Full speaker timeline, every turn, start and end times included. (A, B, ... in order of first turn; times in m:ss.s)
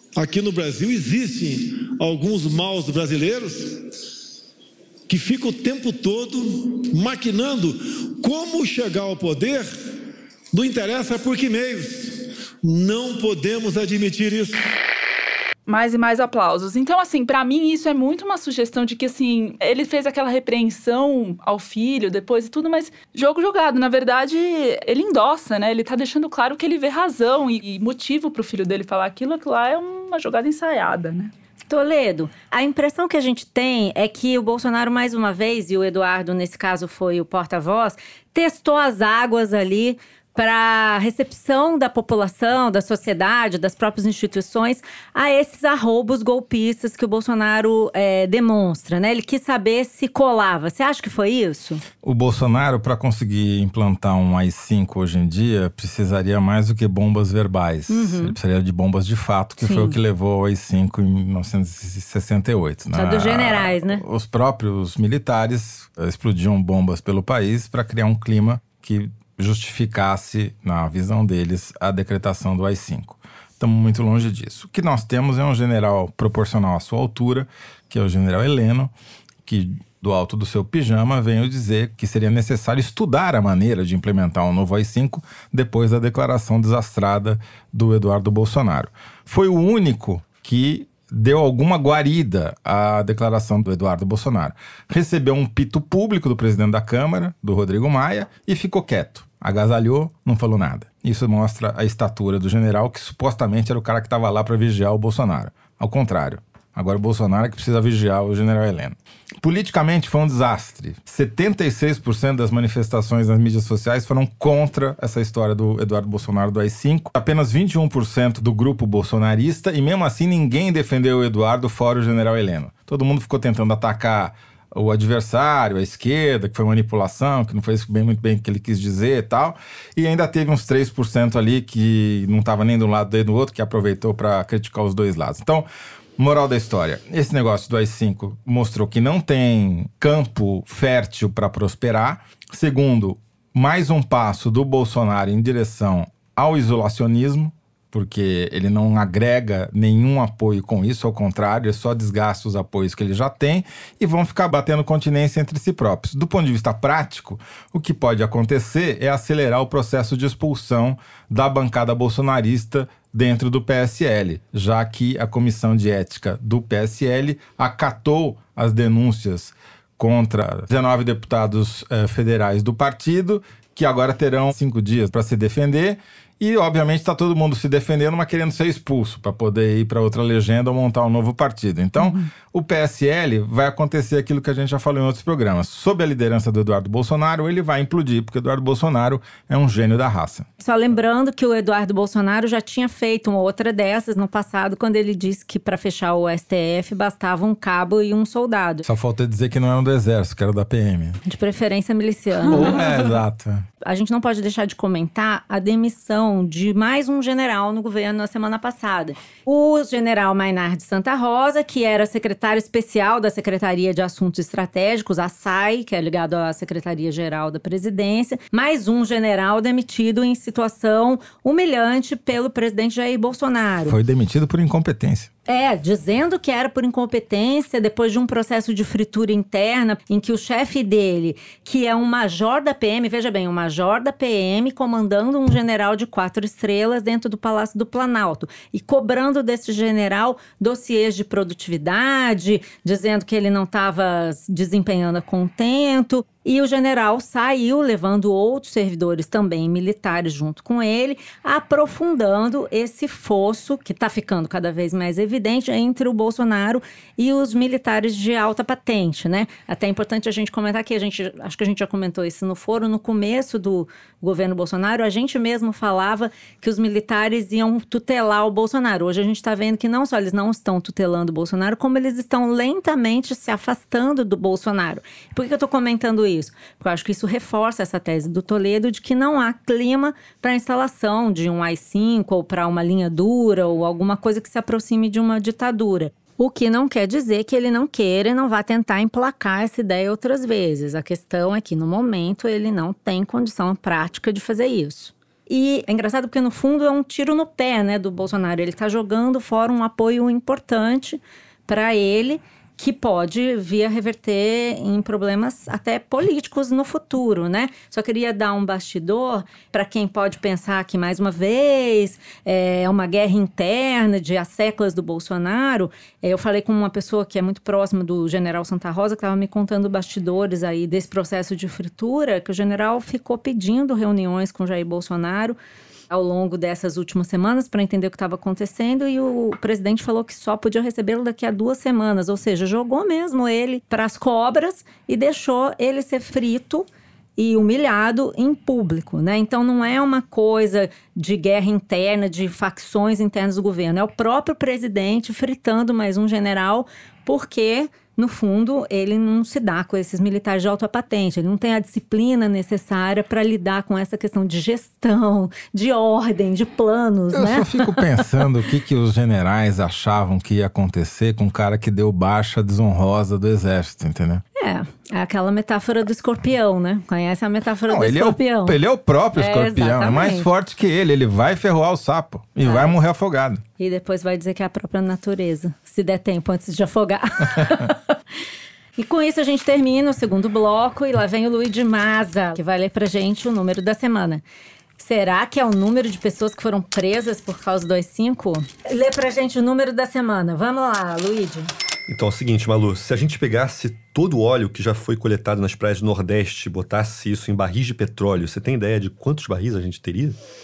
0:00.2-0:03.8 A
0:05.1-0:09.7 A
0:10.5-0:14.7 A
0:15.7-0:31.3 B
0:31.7-0:51.8 C
0:52.0-1:18.9 D
0:57.9-0:58.4 C
0:59.6-1:00.0 C
1:02.9-1:04.0 C
1:19.4-3:10.5 D
3:02.0-3:02.2 C
3:10.6-3:18.8 C
3:18.8-3:21.2 D
3:21.2-3:23.1 C
3:22.5-3:23.6 D
3:23.8-3:44.0 C
3:43.8-3:45.3 D
3:45.5-5:25.6 C
5:26.1-5:58.2 C
5:57.3-6:04.4 D
6:04.6-6:08.8 C
6:07.9-6:13.6 D
6:09.3-6:10.5 C
6:12.6-6:13.0 C
6:13.8-6:18.1 C
6:19.0-6:24.4 C
6:25.0-6:31.7 C
6:32.1-6:40.4 E